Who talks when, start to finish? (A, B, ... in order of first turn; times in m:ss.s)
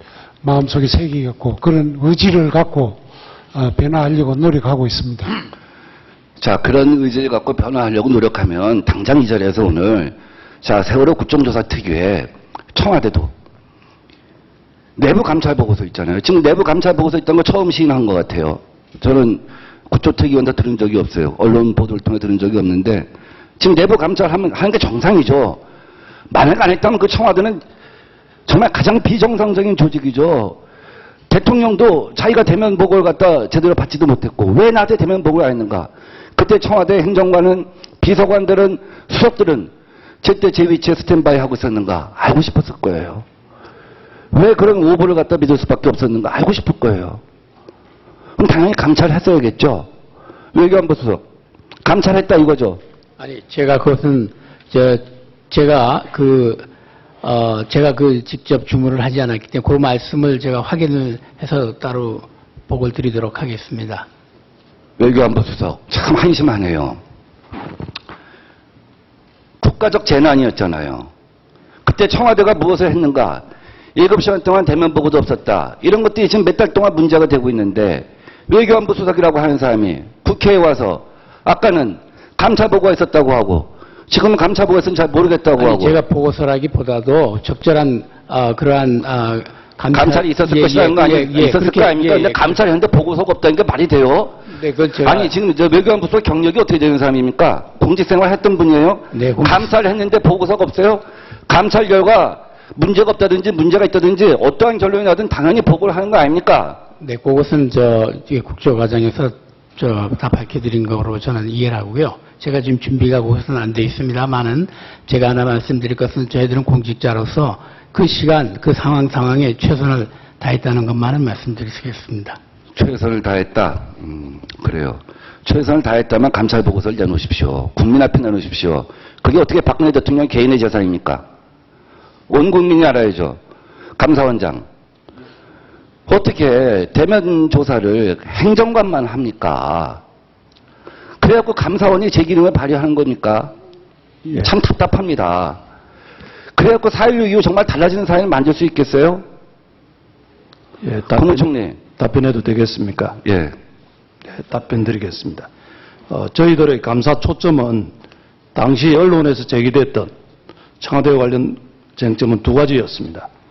0:00.4-0:03.0 A
0:03.5-0:05.3 A
0:06.4-0:13.3 B
0:15.0-0:25.6 B
0:26.3-0:27.6 B
0:28.5-0:30.6 B
0:31.3-0:39.7 B
0:40.2-0:43.2 B
0:44.3-0:47.2 B
0:48.4-0:49.9 B
0:50.5-0:51.2 B
0:51.8-0:52.8 B
0:53.2-0:56.7 C
0:57.2-1:04.0 C
1:05.0-1:07.0 B
1:09.6-1:11.1 B
1:11.8-1:13.4 B
1:13.9-1:26.0 B
1:25.6-1:32.6 C
1:29.9-1:34.4 B
1:34.5-1:35.3 C
1:35.0-1:46.8 B
1:39.1-1:39.6 C
1:47.0-2:02.4 C
2:02.7-2:11.2 B
2:12.3-2:13.4 B
2:14.0-2:14.6 B
2:16.1-2:20.0 B
2:21.2-2:23.5 B
2:24.4-2:25.6 B
2:26.5-2:29.2 B
2:30.8-2:31.4 D
2:31.2-2:31.8 B
2:32.0-2:33.2 D
2:33.2-2:33.5 B
2:34.3-2:35.5 D
2:36.1-2:37.9 D
2:38.5-2:40.1 D
2:40.8-2:43.3 D